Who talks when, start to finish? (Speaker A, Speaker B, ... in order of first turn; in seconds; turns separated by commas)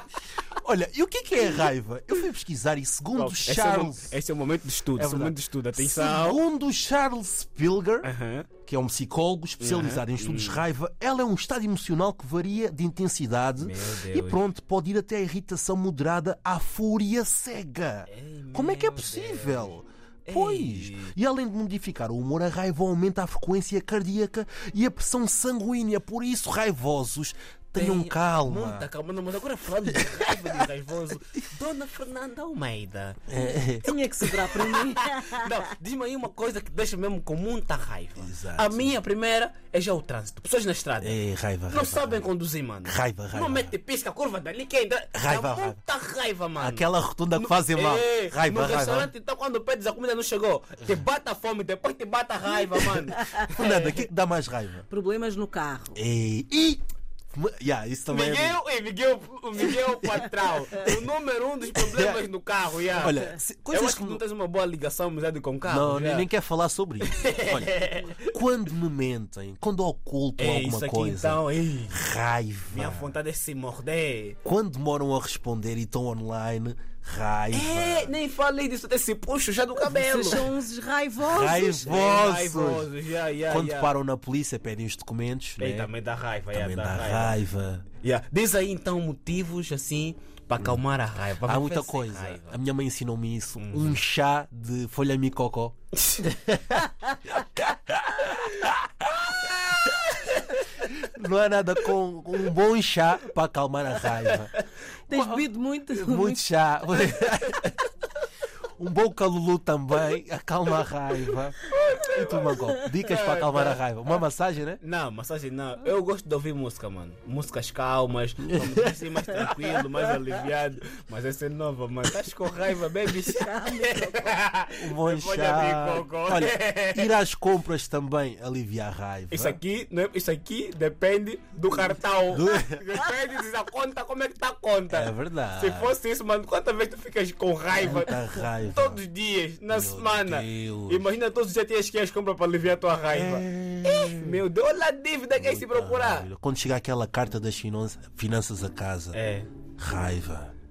Speaker A: 0.6-4.2, Speaker B: 3.1-6.4, Speaker A: 5.0-28.9, Speaker B: 8.0-8.5, Speaker B: 9.6-10.7, Speaker B: 13.6-14.4, Speaker B: 18.1-21.1, Speaker B: 27.8-33.2, Speaker A: 29.9-30.6, Speaker A: 33.3-34.0, Speaker C: 33.8-35.5, Speaker B: 34.2-41.2, Speaker A: 38.2-38.9, Speaker A: 41.0-42.3, Speaker B: 41.7-54.1, Speaker A: 42.8-43.7, Speaker A: 45.1-45.8, Speaker A: 46.6-49.1, Speaker A: 53.5-54.9, Speaker C: 54.9-56.0, Speaker A: 56.0-56.8, Speaker A: 57.3-58.6, Speaker B: 58.1-66.3, Speaker A: 61.8-62.2, Speaker A: 62.9-64.2, Speaker A: 65.7-73.1, Speaker B: 67.0-68.3, Speaker B: 70.4-72.0, Speaker B: 72.7-74.4, Speaker A: 74.4-78.1, Speaker B: 77.5-80.5, Speaker C: 79.8-81.8, Speaker A: 81.2-82.9, Speaker B: 81.8-83.9, Speaker A: 83.5-85.9, Speaker B: 85.6-87.4, Speaker A: 86.5-87.9, Speaker B: 88.0-92.6, Speaker A: 91.4-96.8, Speaker B: 93.6-94.0, Speaker A: 98.1-98.5, Speaker B: 99.8-100.6, Speaker A: 100.8-104.5, Speaker C: 105.1-106.5, Speaker A: 105.1-107.8, Speaker A: 108.8-114.8, Speaker B: 111.6-113.8, Speaker B: 114.8-127.2, Speaker A: 118.5-118.9, Speaker A: 119.4-119.8, Speaker C: 123.3-124.3, Speaker A: 124.8-129.6, Speaker B: 129.3-146.3, Speaker A: 132.3-133.0, Speaker A: 134.9-135.9, Speaker A: 137.7-139.0, Speaker A: 139.7-141.1, Speaker A: 143.1-144.4, Speaker A: 145.4-149.2, Speaker B: 149.1-149.5, Speaker A: 149.8-150.5